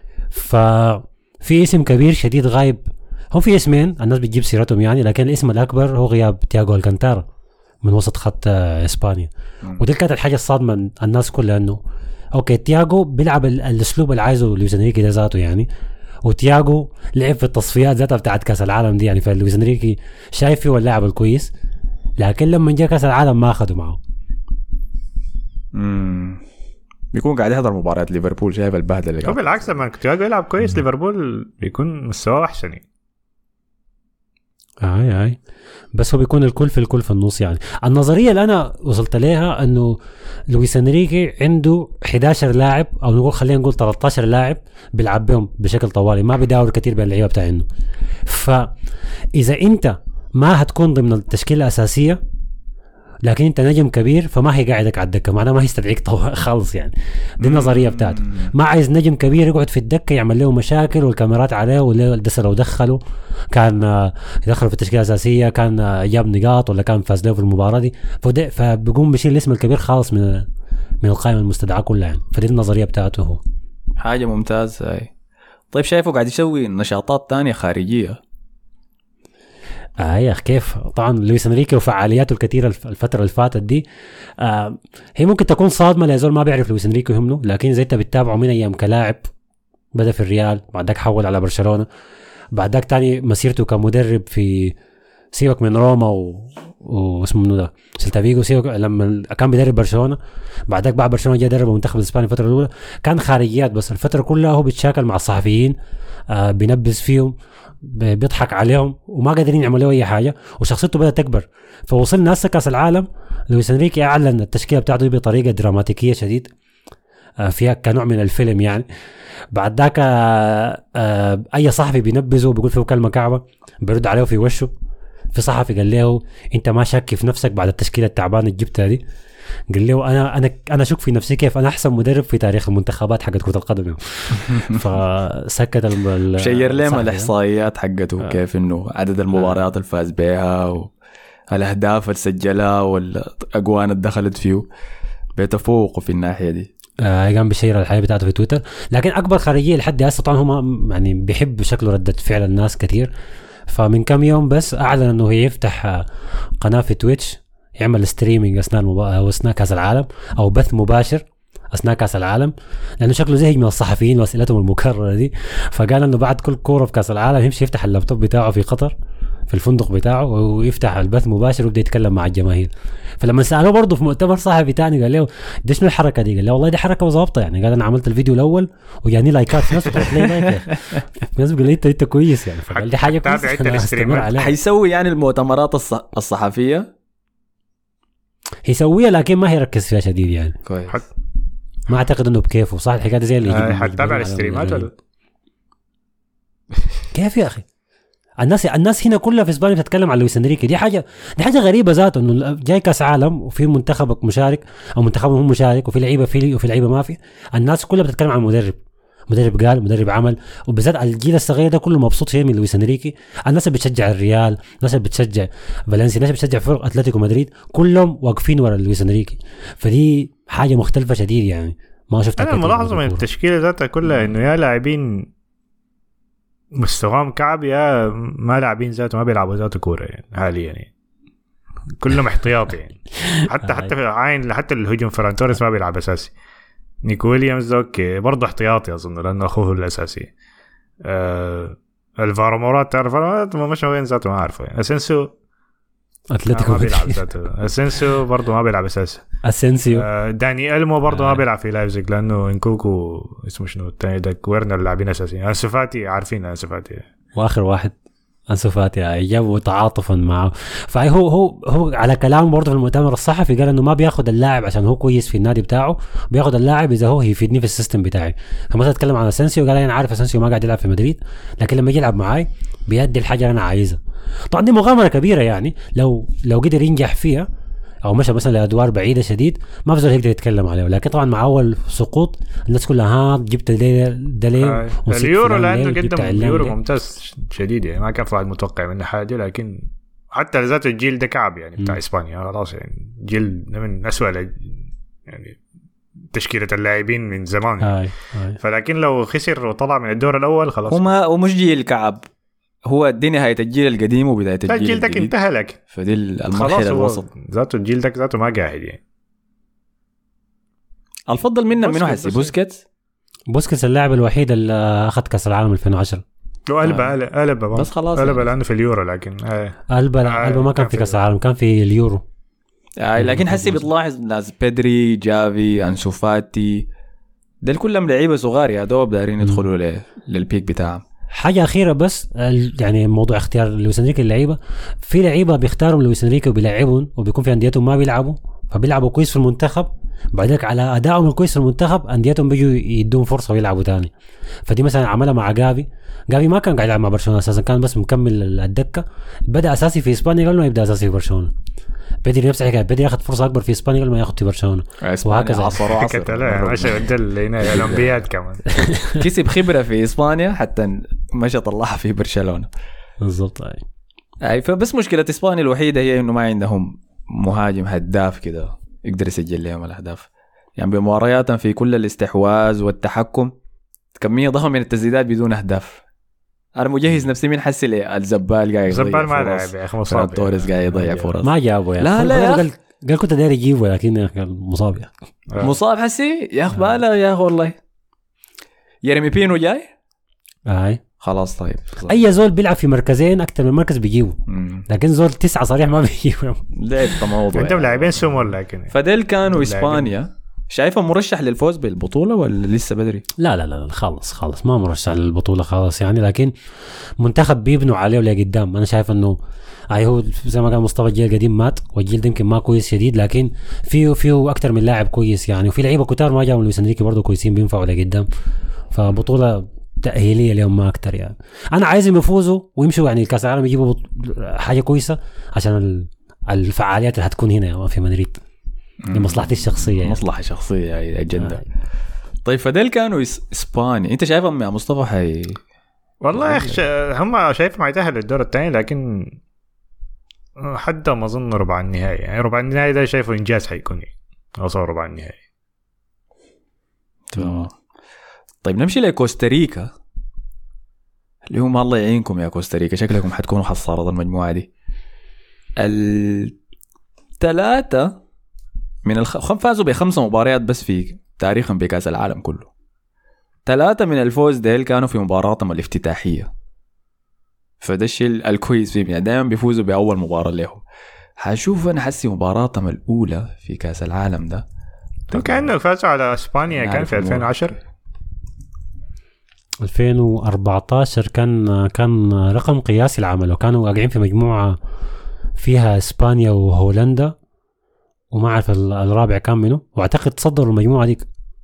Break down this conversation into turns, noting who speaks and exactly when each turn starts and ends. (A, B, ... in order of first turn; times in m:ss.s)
0:00.3-0:07.3 A
0:07.8-0:11.8 A
0:12.3-0:15.7 A
0:16.2-0:21.5 A
0:22.2-0:24.0 A
0:25.7-0:26.4 B
0:27.1-0:29.8 B
0:29.2-0:32.8 C
0:34.8-0:35.4 A
0:35.9-0:40.0 A
0:40.5-0:47.7 A
0:48.3-0:48.7 A
0:49.3-0:52.2 A
0:53.2-1:03.0 A
0:57.4-0:58.5 B
1:03.5-1:10.5 A
1:11.0-1:13.4 A
1:14.0-1:15.1 B
1:15.7-1:18.2 B
1:20.0-1:23.8 A
1:24.4-1:29.3 A
1:30.0-1:31.9 A
1:32.5-1:34.8 A
1:35.3-1:45.8 A
1:46.3-1:56.5 A
1:57.4-1:58.9 A
1:59.5-2:04.7 A
2:05.3-2:09.0 A
2:09.7-2:17.3 A
2:14.4-2:14.8 B
2:16.4-2:20.9 B
2:21.5-2:24.7 B
2:25.4-2:26.7 B
2:27.0-2:33.1 A
2:33.7-2:36.1 A
2:36.6-2:48.9 A
2:49.5-3:04.5 A
2:59.9-3:01.0 B
3:02.7-3:04.3 C
3:04.3-3:06.9 B
3:08.6-3:10.6 A
3:10.6-3:11.0 B
3:11.9-3:14.9 A
3:13.5-3:14.9 C
3:17.1-3:17.7 A
3:18.4-3:28.8 A
3:29.3-3:43.2 A
3:42.4-3:45.3 C
3:46.7-3:50.9 C
3:52.0-3:56.3 C
3:53.2-3:53.9 A
3:57.0-4:00.3 C
4:01.0-4:05.3 C
4:06.3-4:07.2 A
4:06.5-4:09.2 C
4:09.4-4:10.1 A
4:09.9-4:17.0 C
4:11.1-4:11.4 A
4:17.4-4:18.0 A
4:18.5-4:37.5 A
4:38.0-4:46.8 A
4:44.6-4:54.6 C
4:55.3-4:55.6 C
4:56.3-4:58.0 C
4:57.8-4:58.6 A
4:58.6-5:01.1 C
5:00.9-5:02.3 B
5:02.9-5:05.3 B
5:04.7-5:05.8 C
5:05.9-5:07.3 B
5:06.5-5:09.0 C
5:11.3-5:12.8 B
5:11.8-5:12.5 C
5:13.5-5:16.2 A
5:16.7-5:21.2 C
5:16.8-5:17.1 B
5:17.7-5:18.5 B
5:19.9-5:22.2 A
5:23.0-5:26.9 B
5:23.2-5:23.8 A
5:27.6-5:31.0 B
5:31.3-5:44.1 A
5:44.7-5:51.5 A
5:52.2-5:55.8 A
5:55.0-5:58.2 B
5:55.8-5:58.8 C
5:58.8-5:59.2 A
5:59.2-6:02.7 B
6:03.2-6:03.8 A
6:04.4-6:13.5 B
6:14.2-6:16.0 B
6:16.8-6:21.5 B
6:18.9-6:21.4 C
6:21.4-6:25.1 A
6:22.0-6:22.7 B
6:25.6-6:27.8 B
6:29.0-6:29.9 B
6:30.7-6:31.0 A
6:31.2-6:32.2 B
6:32.1-6:37.2 A
6:34.5-6:34.8 B
6:36.7-6:43.2 B
6:37.5-6:39.0 C
6:39.5-6:40.1 C
6:43.4-6:46.5 A
6:47.2-6:49.4 A
6:49.9-6:58.3 A
6:58.9-7:08.4 A
7:09.0-7:11.6 B
7:09.1-7:10.2 A
7:12.4-7:15.6 B
7:16.2-7:19.4 C
7:16.3-7:16.8 B
7:20.6-7:25.4 C
7:27.3-7:27.7 B
7:28.6-7:29.9 B
7:31.5-7:34.7 B
7:35.8-7:36.6 B
7:37.4-7:38.2 B
7:39.0-7:42.7 B
7:43.7-7:46.5 B
7:47.8-7:50.8 B
7:51.4-7:54.6 B
7:55.3-7:55.7 B
7:55.3-7:57.8 C
7:56.6-7:57.7 B
7:59.8-8:04.8 A
8:05.6-8:07.4 A
8:08.3-8:11.3 A